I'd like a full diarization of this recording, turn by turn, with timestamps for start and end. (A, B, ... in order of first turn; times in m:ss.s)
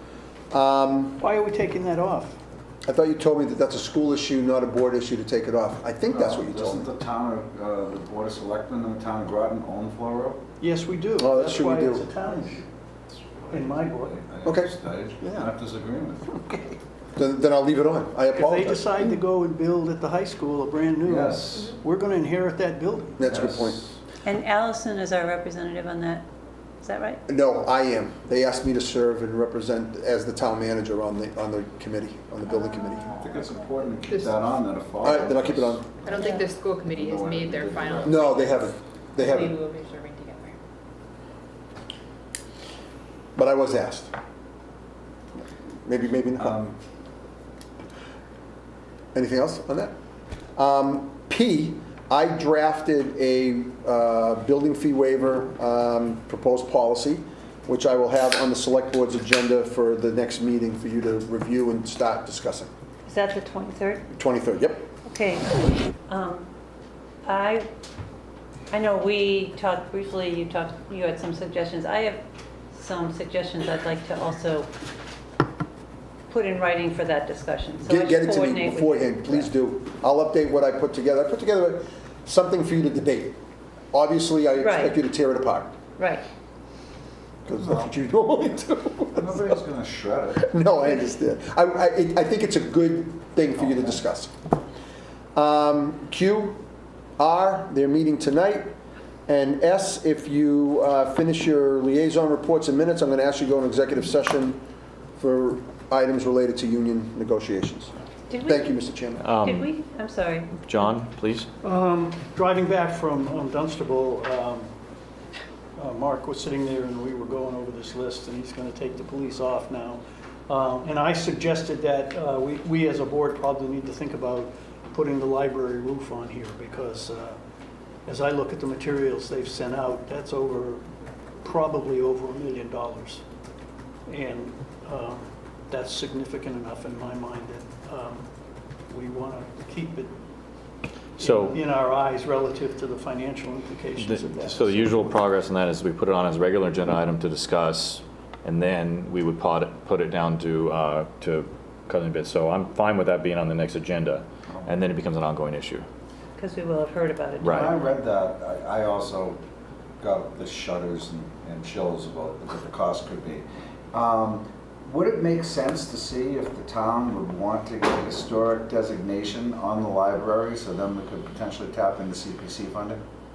0:00.5-0:01.2 A
0:01.2-0:02.4 B
0:02.9-0:06.9 A
0:06.1-0:10.4 C
0:10.6-0:12.6 B
0:11.2-0:12.1 A
0:13.1-0:16.8 C
0:13.5-0:14.2 B
0:14.4-0:14.7 A
0:15.2-0:15.5 B
0:17.2-0:18.9 A
0:18.3-0:23.2 B
0:21.0-0:21.7 C
0:23.2-0:23.8 A
0:23.2-0:24.0 C
0:24.2-0:26.2 D
0:26.8-0:27.2 D
0:27.3-0:33.2 A
0:33.1-0:36.0 C
0:35.0-0:35.9 A
0:36.0-0:40.6 E
0:36.9-0:38.3 C
0:38.0-0:39.6 A
0:43.4-0:44.1 A
0:45.4-0:46.6 A
0:46.4-0:46.8 C
0:49.1-0:49.9 A
0:50.6-1:02.7 A
1:03.1-1:04.0 D
1:04.1-1:04.9 A
1:05.1-1:06.5 D
1:07.2-1:07.7 D
1:08.7-1:14.7 D
1:16.3-1:19.5 D
1:17.8-1:23.4 A
1:23.9-1:25.8 A
1:24.6-1:25.0 D
1:26.0-1:26.2 D
1:27.4-1:29.6 A
1:27.6-1:27.9 C
1:29.2-1:30.4 C
1:30.4-1:34.3 A
1:33.6-1:34.0 C
1:35.4-1:36.6 A
1:37.2-1:38.7 A
1:39.3-1:44.6 A
1:45.2-1:47.9 A
1:48.3-1:48.7 D
1:48.4-1:49.3 A
1:49.2-1:49.7 F
1:49.4-1:50.5 D
1:50.5-1:51.5 F
1:51.6-1:54.7 B
1:55.8-2:07.4 B
2:08.1-2:10.8 B
2:11.4-2:13.2 B
2:14.1-2:18.3 B
2:18.9-2:20.1 B
2:21.2-2:25.2 B
2:21.2-2:21.6 F
2:24.0-2:35.9 F
2:36.4-2:37.6 D
2:37.4-2:37.7 F
2:37.4-2:39.4 C
2:40.0-2:53.0 C